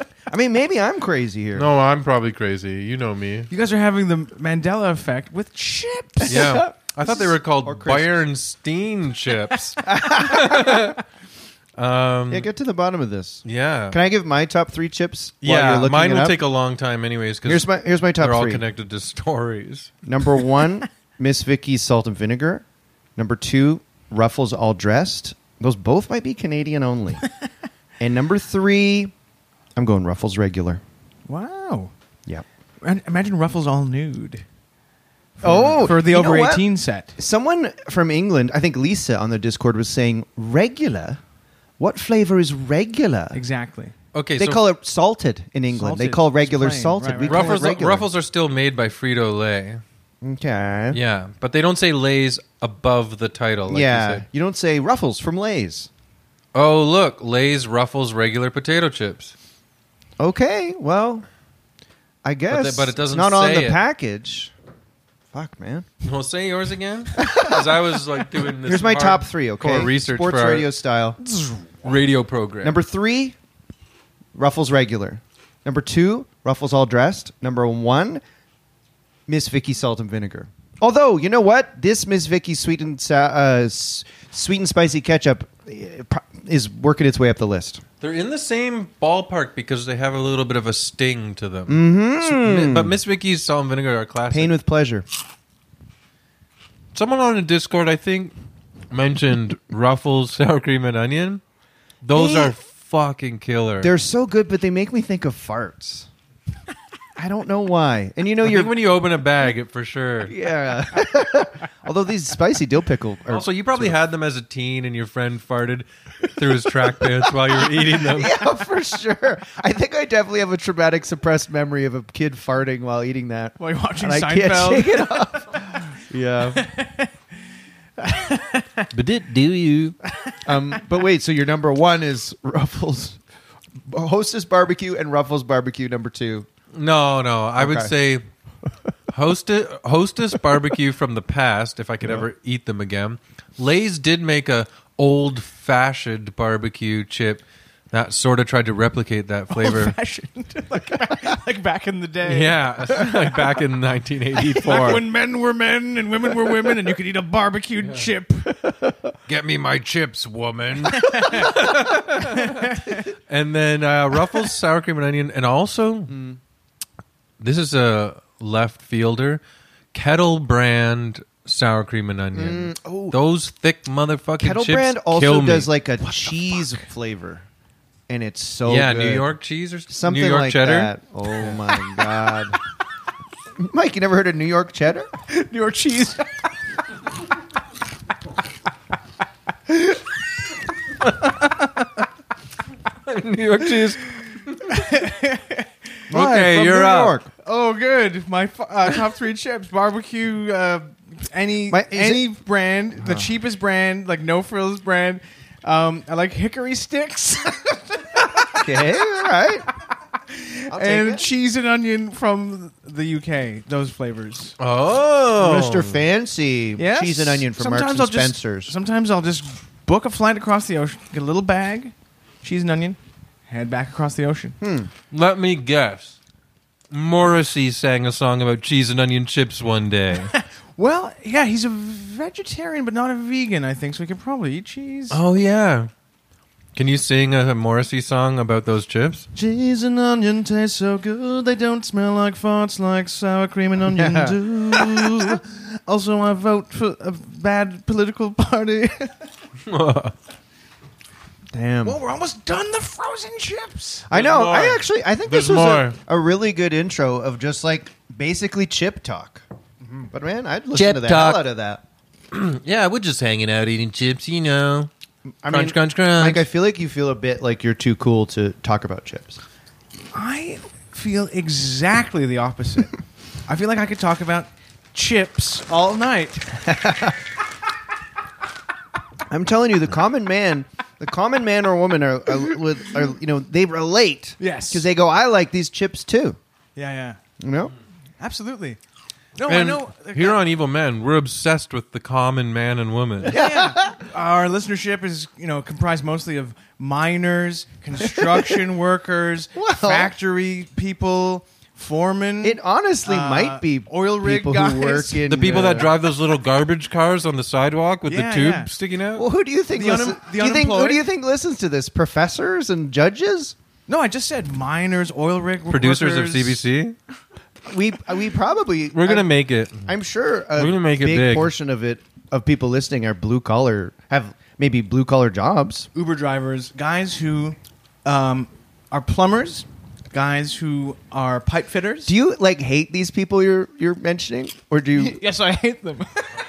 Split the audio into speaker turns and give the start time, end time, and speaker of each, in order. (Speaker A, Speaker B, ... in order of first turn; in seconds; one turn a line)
Speaker A: 0.3-1.7
Speaker B: 1.5-3.5
Speaker C: 3.5-6.6
Speaker A: 6.2-8.2
Speaker B: 6.3-11.0
Speaker A: 9.8-10.9
Speaker B: 11.8-12.5
Speaker A: 12.3-16.4
Speaker B: 13.4-14.0
Speaker B: 15.4-19.9
Speaker A: 17.4-18.6
Speaker A: 20.0-22.6
Speaker A: 23.1-27.2
Speaker A: 28.0-29.1
Speaker A: 29.8-30.8
Speaker C: 31.3-31.9
Speaker C: 32.8-34.4
Speaker A: 35.4-41.2
Speaker C: 35.4-37.1
Speaker A: 41.8-43.4
Speaker C: 43.3-43.9
Speaker B: 44.1-44.6
Speaker A: 44.4-48.1
Speaker C: 45.7-47.8
Speaker B: 47.2-49.8
Speaker A: 50.2-51.0
Speaker B: 50.9-54.2
Speaker A: 53.7-55.9
Speaker B: 56.5-59.3
Speaker A: 60.2-61.2
Speaker A: 62.2-64.5
Speaker B: 62.5-63.8
Speaker A: 65.3-65.9
Speaker B: 66.0-70.7
Speaker A: 67.2-67.8
Speaker A: 68.6-71.2
Speaker C: 71.3-71.6
Speaker B: 71.8-72.8
Speaker A: 72.6-73.3
Speaker A: 74.3-78.2
Speaker A: 79.3-87.8
Speaker B: 88.0-94.5
Speaker A: 91.7-93.0
Speaker A: 94.3-95.0
Speaker B: 96.9-98.3
Speaker B: 98.9-101.4
Speaker B: 102.0-103.9
Speaker A: 102.1-102.5
Speaker A: 103.8-106.1
Speaker A: 107.2-108.7
Speaker B: 108.4-110.3
Speaker A: 110.2-114.0
Speaker B: 113.3-118.4
Speaker A: 118.0-126.7
Speaker C: 123.6-125.6
Speaker C: 126.5-127.1
Speaker C: 128.0-128.9
Speaker B: 128.9-130.0
Speaker A: 130.4-133.2
Speaker A: 133.8-136.5
Speaker B: 136.7-138.2
Speaker A: 137.6-137.9
Speaker B: 139.1-150.0
Speaker C: 149.5-153.3
Speaker B: 152.2-155.1
Speaker C: 154.5-158.6
Speaker B: 157.8-158.1
Speaker B: 159.3-166.1
Speaker C: 160.9-161.6
Speaker C: 162.2-163.0
Speaker A: 166.1-166.4
Speaker B: 167.4-169.4
Speaker B: 169.9-175.7
Speaker A: 172.3-173.2
Speaker A: 174.4-177.4
Speaker A: 178.1-179.3
Speaker B: 178.7-180.9
Speaker A: 179.9-182.6
Speaker A: 183.6-185.1
Speaker C: 185.3-186.4
Speaker C: 189.7-190.0
Speaker B: 193.0-194.8
Speaker C: 194.7-195.7
Speaker A: 196.1-197.3
Speaker B: 196.1-197.2
Speaker C: 197.4-208.6
Speaker A: 201.7-202.3
Speaker A: 203.0-203.3
Speaker A: 208.5-209.7
Speaker C: 210.3-214.5
Speaker A: 210.7-211.3
Speaker B: 214.6-216.0
Speaker A: 215.4-218.7
Speaker C: 216.8-224.6
Speaker A: 224.6-224.9
Speaker B: 225.1-226.2
Speaker B: 226.9-230.3
Speaker C: 230.3-235.2
Speaker B: 235.1-235.9
Speaker B: 236.8-239.3
Speaker C: 239.3-249.1
Speaker A: 243.9-245.4
Speaker B: 249.7-250.1
Speaker A: 251.5-252.0
Speaker C: 251.8-254.1
Speaker A: 254.1-259.4
Speaker B: 254.1-256.0
Speaker A: 260.1-261.8
Speaker B: 260.7-261.4
Speaker B: 262.3-264.9
Speaker A: 265.4-269.4
Speaker B: 265.5-266.4
Speaker C: 270.1-272.9
Speaker C: 273.5-276.6
Speaker A: 276.6-277.2
Speaker A: 279.3-286.4
Speaker C: 284.4-284.9
Speaker C: 286.8-287.2
Speaker A: 287.4-287.7
Speaker C: 288.2-288.8
Speaker C: 289.4-290.4
Speaker B: 289.5-293.3
Speaker A: 293.2-294.0
Speaker C: 293.2-305.6
Speaker A: 298.1-298.6
Speaker A: 299.5-300.1
Speaker A: 302.4-305.9
Speaker B: 305.3-309.2
Speaker C: 308.1-308.7
Speaker A: 309.1-313.5
Speaker C: 309.7-311.0
Speaker C: 313.9-316.6
Speaker B: 315.7-317.0
Speaker A: 317.7-319.3
Speaker B: 318.9-319.9
Speaker A: 319.8-325.9
Speaker B: 320.5-321.5
Speaker C: 325.9-332.1
Speaker A: 332.1-335.2
Speaker C: 334.9-336.3